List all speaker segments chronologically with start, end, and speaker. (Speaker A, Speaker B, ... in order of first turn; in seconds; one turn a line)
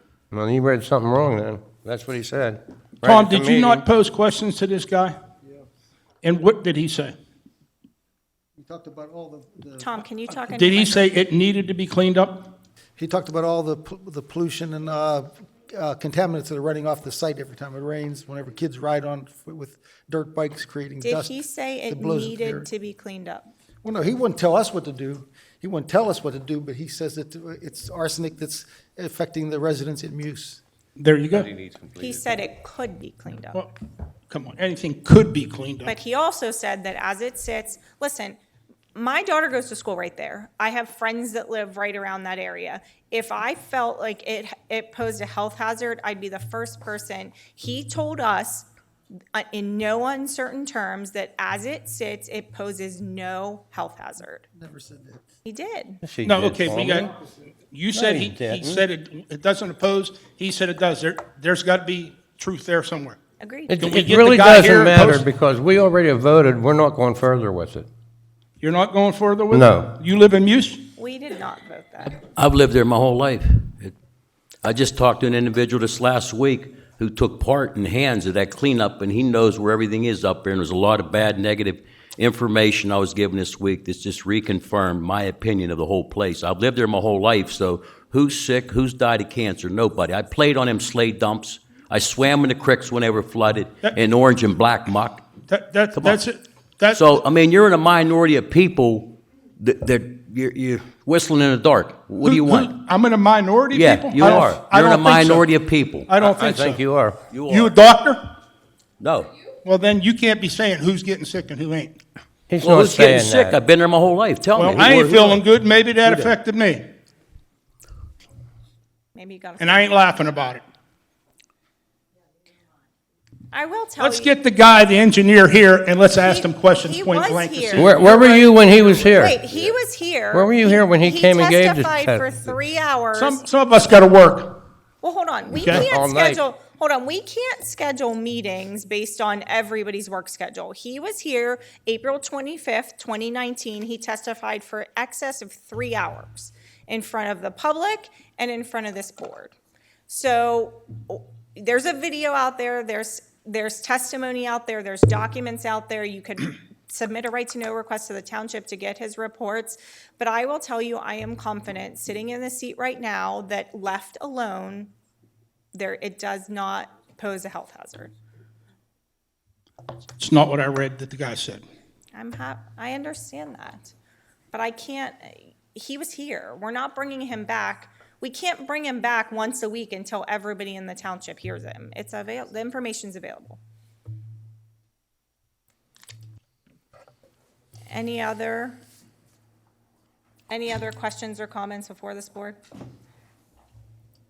Speaker A: 0.3-3.9
Speaker B: 3.0-5.2
Speaker B: 6.2-7.2
Speaker C: 8.6-9.9
Speaker D: 9.8-11.2
Speaker B: 10.4-12.5
Speaker C: 13.0-21.4
Speaker D: 21.0-23.5
Speaker C: 21.9-22.7
Speaker C: 23.8-30.6
Speaker B: 31.0-31.5
Speaker E: 31.3-32.1
Speaker D: 32.0-33.6
Speaker B: 34.3-36.0
Speaker D: 35.9-38.4
Speaker D: 39.0-48.7
Speaker D: 49.3-54.5
Speaker C: 54.5-55.2
Speaker D: 55.5-56.0
Speaker A: 56.0-57.1
Speaker B: 56.2-57.1
Speaker B: 57.7-63.2
Speaker A: 57.9-58.9
Speaker D: 63.4-63.8
Speaker A: 63.7-67.9
Speaker B: 63.8-65.2
Speaker B: 68.6-70.8
Speaker A: 69.5-69.9
Speaker D: 71.0-72.2
Speaker E: 72.2-73.9
Speaker E: 74.6-95.3
Speaker B: 95.5-97.2
Speaker E: 96.9-102.8
Speaker B: 102.2-105.5
Speaker E: 103.7-106.7
Speaker B: 106.1-106.8
Speaker A: 106.2-107.2
Speaker E: 107.3-107.7
Speaker B: 107.4-108.3
Speaker E: 109.0-109.3
Speaker B: 109.6-112.0
Speaker A: 112.5-113.6
Speaker E: 112.6-115.4
Speaker B: 114.5-116.8
Speaker E: 116.1-116.3
Speaker D: 119.1-119.9
Speaker B: 119.6-120.6
Speaker D: 123.5-124.3
Speaker B: 124.0-128.4
Speaker D: 126.2-133.4
Speaker A: 127.8-129.4
Speaker A: 130.3-132.3
Speaker B: 133.1-134.6
Speaker D: 135.0-149.5
Speaker B: 135.6-135.8
Speaker A: 135.8-136.4
Speaker D: 150.1-164.9
Speaker D: 165.7-168.1
Speaker B: 170.2-171.6
Speaker D: 172.1-173.9
Speaker D: 174.5-183.6
Speaker D: 187.9-188.8
Speaker D: 190.5-192.6